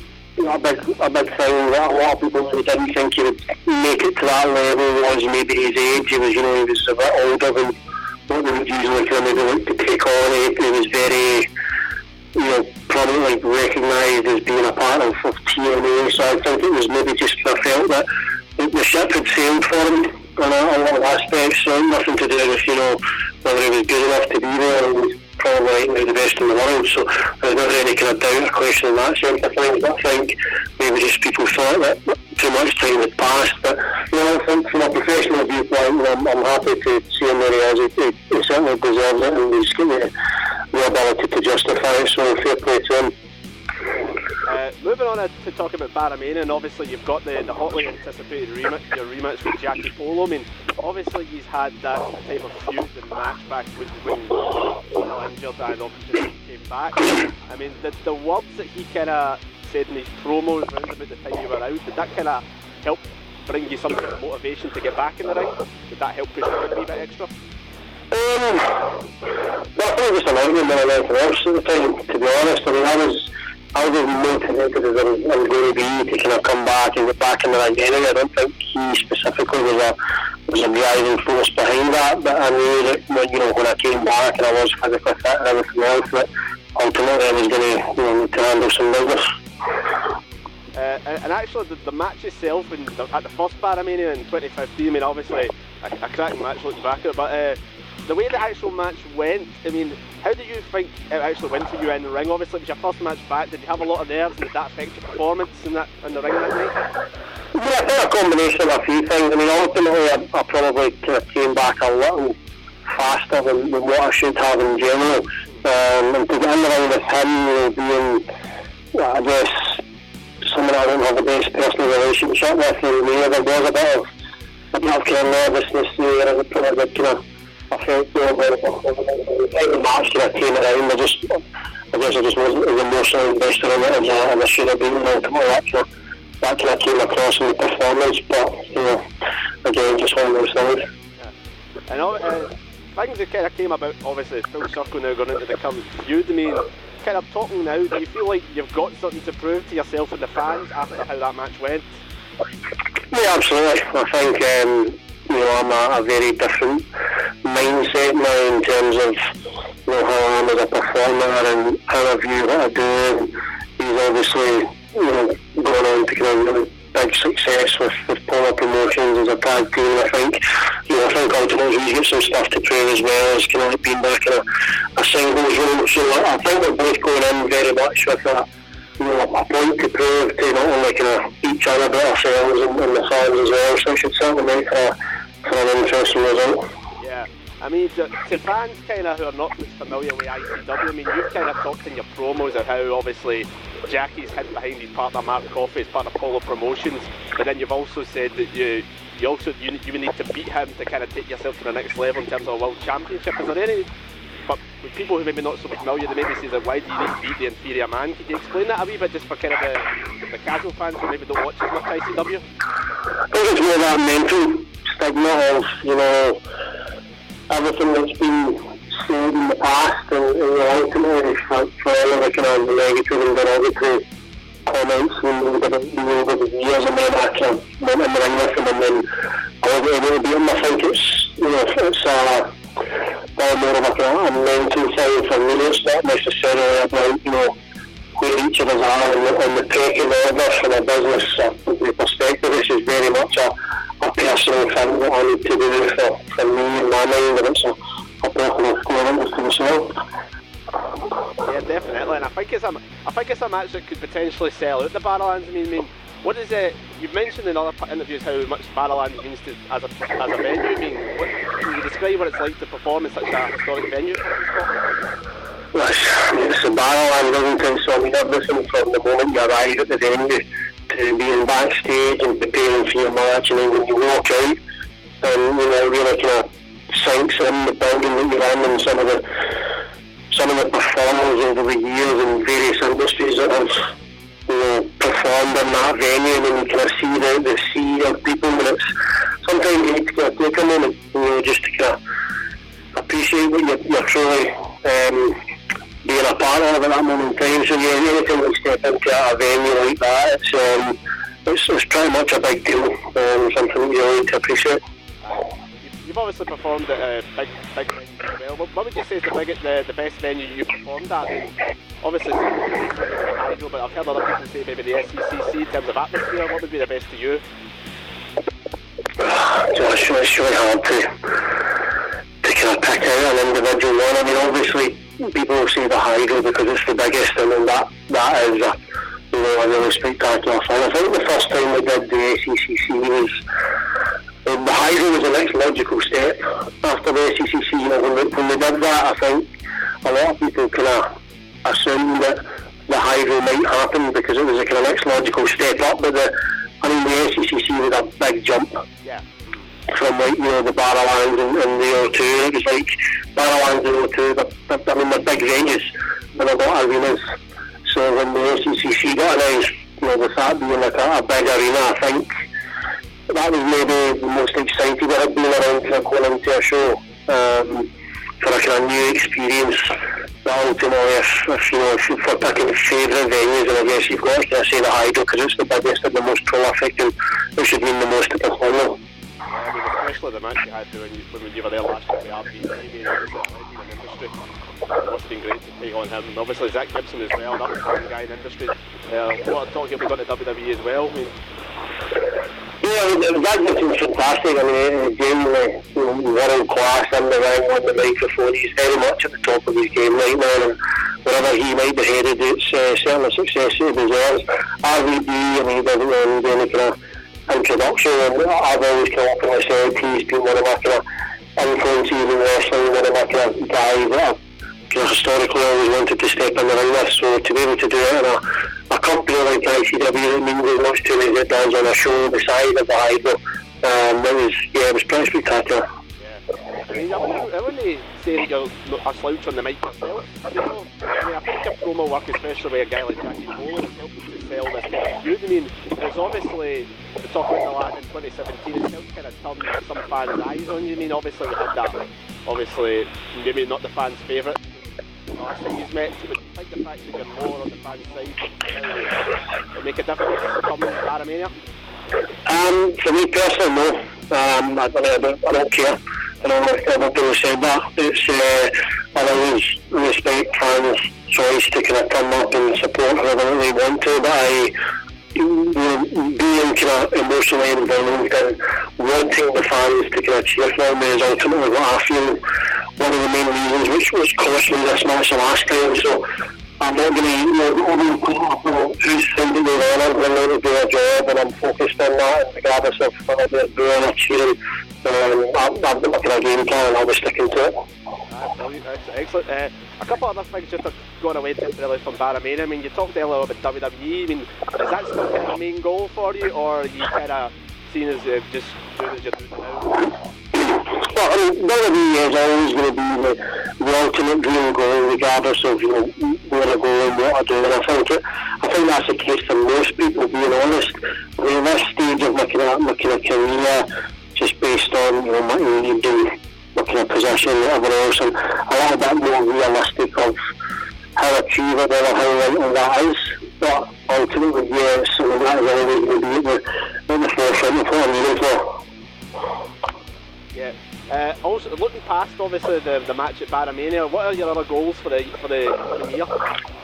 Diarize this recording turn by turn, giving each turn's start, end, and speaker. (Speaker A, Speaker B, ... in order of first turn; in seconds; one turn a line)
Speaker A: 0.4-7.8
Speaker A: 8.3-11.5
Speaker A: 12.3-18.1
Speaker A: 18.6-40.1
Speaker A: 40.7-43.1
Speaker B: 44.5-67.3
Speaker A: 68.1-69.0
Speaker A: 69.8-80.0
Speaker A: 80.5-89.2
Speaker B: 90.7-106.8
Speaker A: 107.5-112.3
Speaker A: 112.9-118.2
Speaker A: 118.9-119.8
Speaker A: 120.5-124.1
Speaker A: 124.7-127.2
Speaker A: 127.7-131.4
Speaker A: 131.9-135.9
Speaker A: 136.4-139.0
Speaker A: 139.6-140.9
Speaker B: 141.9-151.9
Speaker A: 153.1-156.8
Speaker A: 157.4-159.2
Speaker A: 159.9-174.4
Speaker A: 175.0-178.4
Speaker A: 179.0-184.9
Speaker A: 185.4-186.6
Speaker B: 187.0-203.9
Speaker B: 204.5-212.4
Speaker A: 213.3-216.4
Speaker A: 217.5-224.0
Speaker A: 224.7-229.1
Speaker A: 229.6-232.5
Speaker A: 233.4-237.5
Speaker A: 238.2-249.9
Speaker B: 251.4-264.7
Speaker A: 265.7-274.6
Speaker A: 275.2-279.2
Speaker A: 280.3-283.9
Speaker A: 284.5-288.8
Speaker A: 289.4-292.0
Speaker A: 293.0-295.4
Speaker A: 296.0-304.8
Speaker B: 305.2-317.4
Speaker A: 319.2-321.1
Speaker A: 322.4-328.8
Speaker A: 329.3-333.4
Speaker A: 334.4-339.5
Speaker A: 340.0-341.1
Speaker A: 341.6-348.8
Speaker B: 349.0-349.4
Speaker A: 349.9-357.3
Speaker A: 357.9-362.3
Speaker A: 363.3-367.9
Speaker A: 368.4-379.0
Speaker B: 379.5-384.3
Speaker B: 385.0-391.3
Speaker A: 392.8-406.9
Speaker A: 407.5-411.0
Speaker A: 411.6-414.4
Speaker A: 414.9-425.9
Speaker B: 426.2-444.7
Speaker B: 445.4-449.2
Speaker B: 449.7-451.5
Speaker A: 452.5-464.7
Speaker A: 465.4-472.4
Speaker A: 473.0-476.2
Speaker A: 476.8-487.8
Speaker B: 488.3-500.1
Speaker A: 500.6-520.4
Speaker A: 521.2-528.8
Speaker B: 530.5-536.3